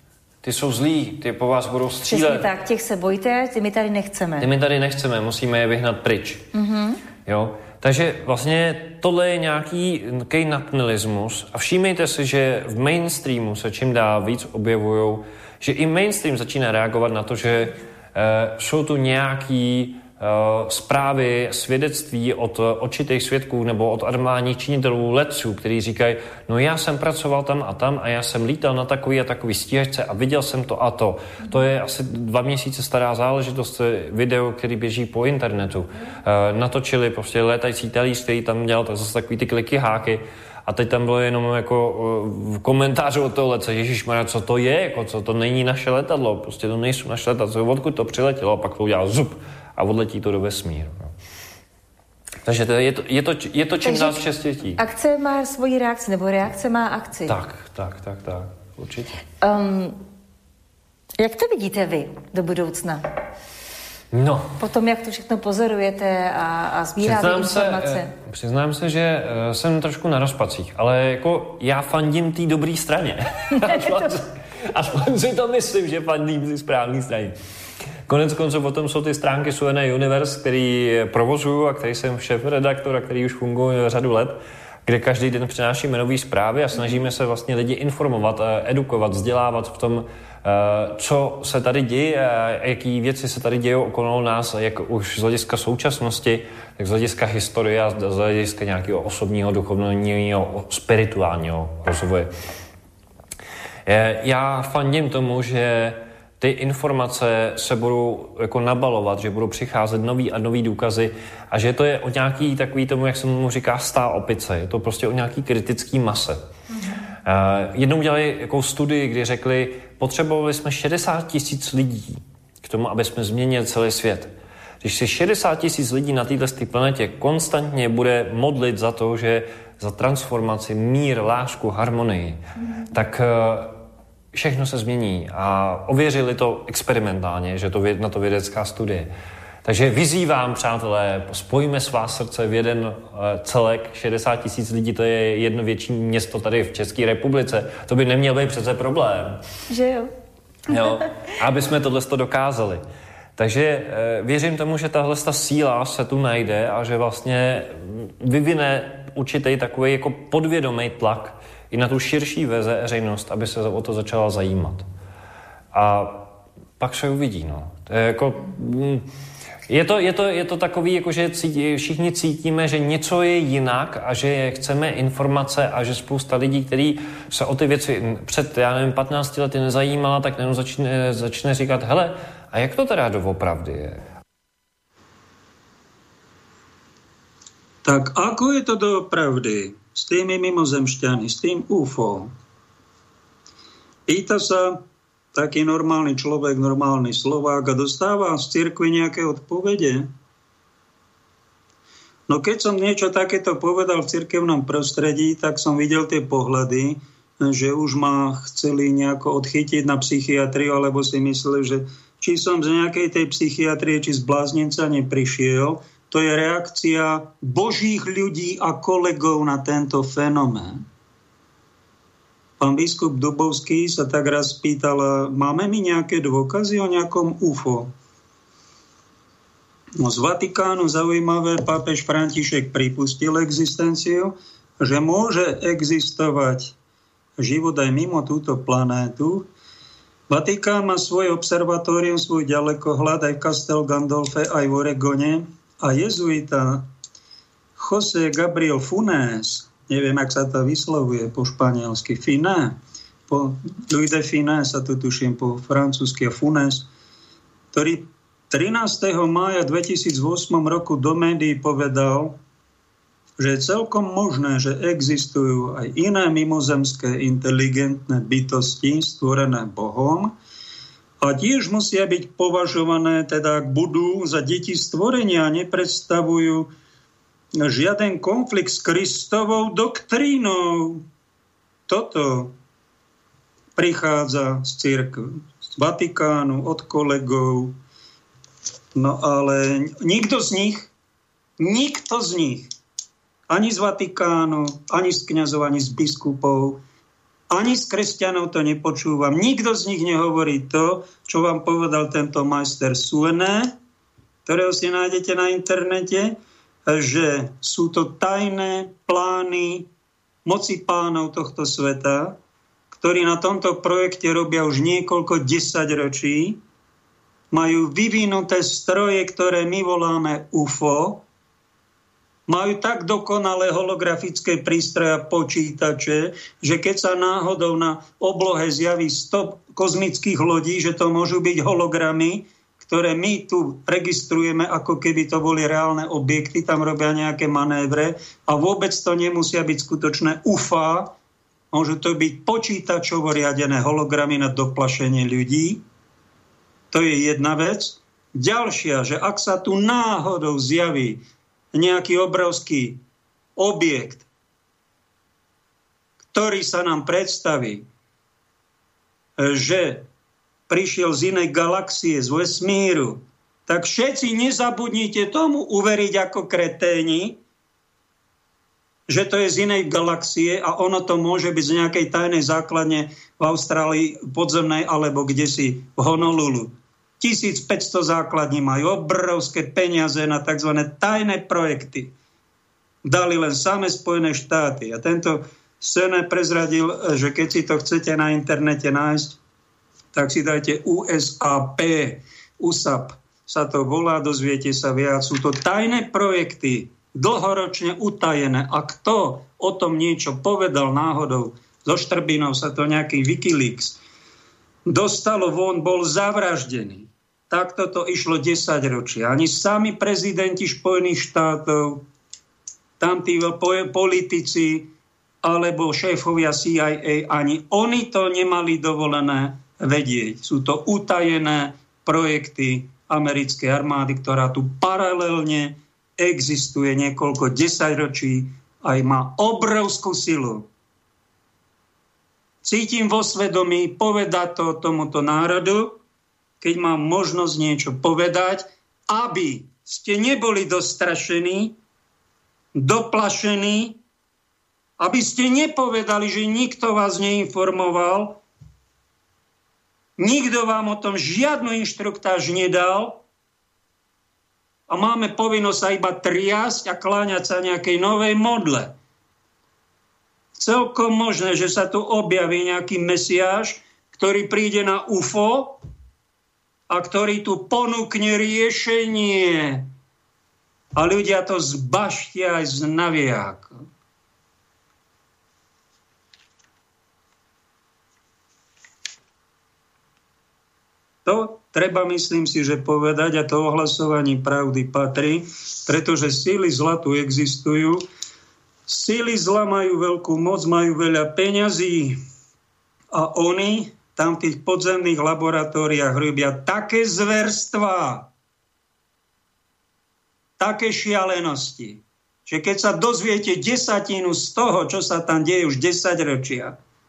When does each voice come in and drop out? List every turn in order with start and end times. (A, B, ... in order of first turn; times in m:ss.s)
0:00.4-0:02.5 A
0:02.0-0:04.5 B
0:04.4-0:06.5 A
0:06.5-0:07.0 B
0:07.3-0:51.1 A
0:52.4-0:54.8 A
0:53.8-0:54.2 B
0:54.8-0:57.4 B
0:57.3-0:59.2 A
0:59.4-1:00.0 B
1:01.2-1:03.0 B
1:04.1-1:04.6 A
1:04.6-1:08.1 B
1:07.0-1:17.4 A
1:13.6-1:14.1 B
1:18.1-1:42.3 A
1:43.9-1:56.4 A
1:57.2-2:13.8 A
2:14.3-2:19.1 A
2:19.6-2:29.4 A
2:29.7-2:30.1 B
2:30.7-2:32.8 A
2:30.7-2:31.0 B
2:33.4-2:44.9 A
2:45.7-2:49.1 A
2:49.7-3:04.0 A
3:07.8-3:12.3 C
3:14.1-3:14.8 C
3:15.3-3:20.1 C
3:22.3-3:40.8 C
3:42.6-3:47.9 C
3:50.0-3:56.8 C
3:57.4-3:59.5 C
4:00.3-4:06.9 C
4:07.8-4:12.8 C
4:13.3-4:16.9 C
4:17.7-4:22.4 C
4:23.4-4:30.3 C
4:31.2-4:36.7 C
4:37.6-4:41.0 C
4:41.9-4:42.6 C
4:43.8-4:47.8 C
4:49.0-4:50.9 C
4:51.6-4:52.7 C
4:53.5-4:56.8 C
4:57.5-5:03.8 C
5:04.5-5:09.9 C
5:10.4-5:12.4 C
5:12.9-5:16.6 C
5:17.5-5:21.2 C
5:22.5-5:41.1 C
5:41.7-5:45.8 C
5:46.9-5:53.0 C
5:53.6-5:54.3 C
5:56.3-5:57.9 C
5:59.4-6:00.1 C
6:00.7-6:07.4 C
6:09.1-6:22.1 C
6:23.0-6:29.4 C
6:30.1-6:44.0 C
6:44.9-6:52.0 C
6:53.0-6:54.9 C
6:55.4-7:10.7 C
7:12.6-7:16.0 C
7:16.6-7:21.8 C
7:22.7-7:24.0 C
7:25.0-7:28.4 C
7:30.2-7:33.2 C
7:34.9-7:39.0 C
7:40.6-7:45.8 C
7:46.9-7:49.9 C
7:51.0-7:53.8 C
8:01.2-8:08.0 C
8:08.9-8:12.2 C
8:13.1-8:18.3 C
8:20.6-8:26.8 C